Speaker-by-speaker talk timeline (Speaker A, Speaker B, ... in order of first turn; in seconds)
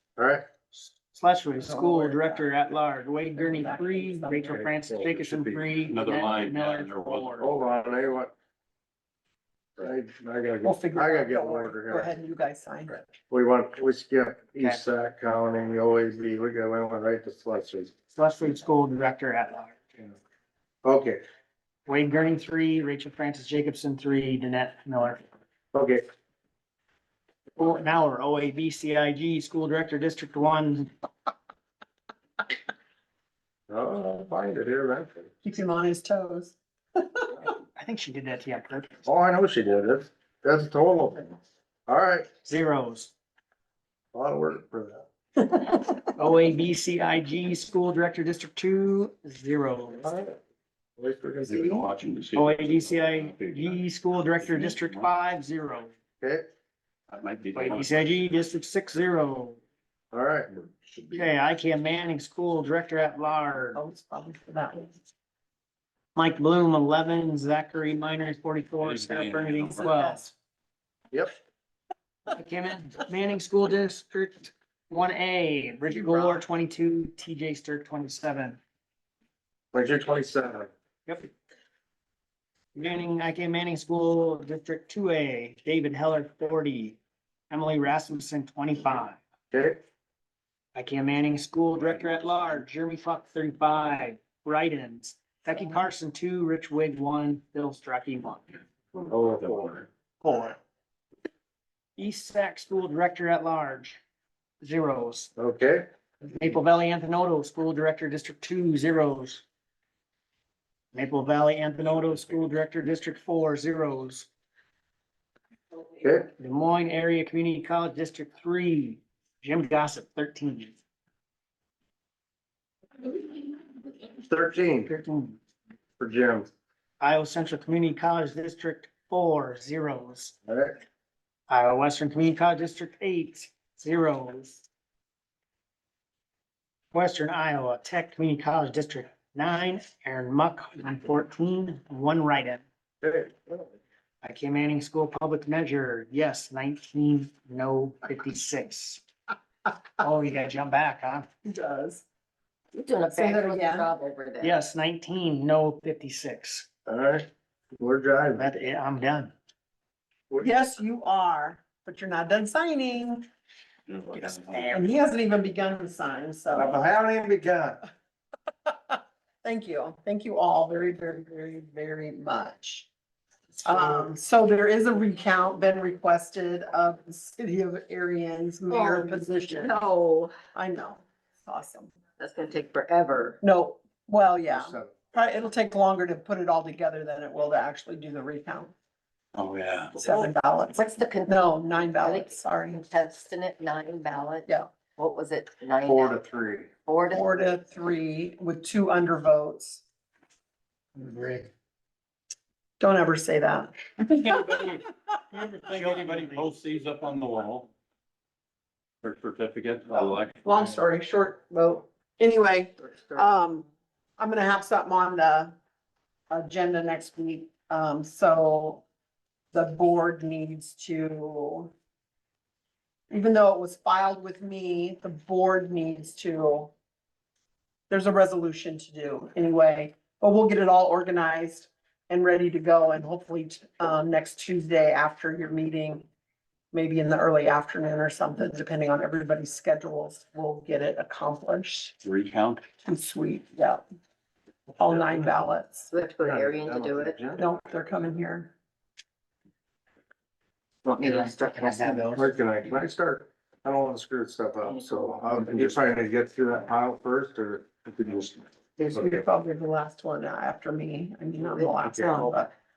Speaker A: 0.1-0.4, 4.5-5.7, 7.4-8.3, 9.8-12.1, 13.3-17.9, 20.8-21.2, 25.7-26.1, 33.7-35.3, 39.0-41.3, 41.9-42.3, 44.1-45.0, 50.0-50.3, 51.0-51.9, 56.2-56.5, 60.1-60.5, 79.7-80.7, 89.5-89.8, 99.0-100.5, 105.4-105.8, 116.0-116.3, 124.1-124.9, 126.0-126.5, 130.4-130.8, 143.0-143.7, 156.8-158.5, 166.5-167.8, 173.7-174.1, 184.4-184.9, 195.8-196.7, 246.2-247.5, 252.1-259.2
Speaker B: 1.1-7.5, 18.1-20.1, 21.9-25.2, 27.6-30.9, 37.6-39.0, 42.4-43.1, 46.1-50.1, 52.3-55.9, 57.5-59.6, 61.1-63.8, 66.1-70.3, 72.3-78.6, 82.7-87.0, 87.5-89.2, 90.7-98.6, 102.0-104.0, 104.6-105.3, 106.2-109.4, 110.9-114.3, 116.4-120.8, 124.9-125.4, 127.0-130.3, 131.5-134.6, 136.9-142.6, 144.2-149.0, 150.0-151.3, 154.4-156.7, 158.3-159.3, 164.1-164.8, 200.9-201.5, 204.1-204.8, 205.3-206.5, 251.0-252.3
Speaker C: 1.6-2.5, 3.4-4.6, 10.6-13.0, 35.4-37.3, 63.7-64.9, 151.4-152.0, 153.1-153.9, 160.4-163.3, 164.7-166.8, 168.9-172.9, 173.6-179.8, 180.5-181.9, 183.4-188.7, 190.0-192.8, 197.1-199.8, 202.8-204.8, 209.9-213.7, 214.2-215.5, 216.3-218.8, 219.5-221.7, 223.1-226.7, 227.9-236.1, 236.7-241.9, 242.8-243.8, 244.8-245.9, 247.4-248.5, 258.8-262.5
Speaker D: 5.9-7.5, 51.4-55.1, 57.1-58.2, 60.7-61.2, 68.8-70.0, 99.3-99.7, 163.9-164.7, 189.3-190.0, 205.7-207.7, 209.0-210.8, 242.0-242.6
Speaker E: 152.7-154.5, 178.7-180.3, 182.2-183.4, 190.0-196.3, 196.8-197.4, 212.9-213.3, 245.9-247.2, 250.8-252.2, 254.6-255.1, 261.4-262.4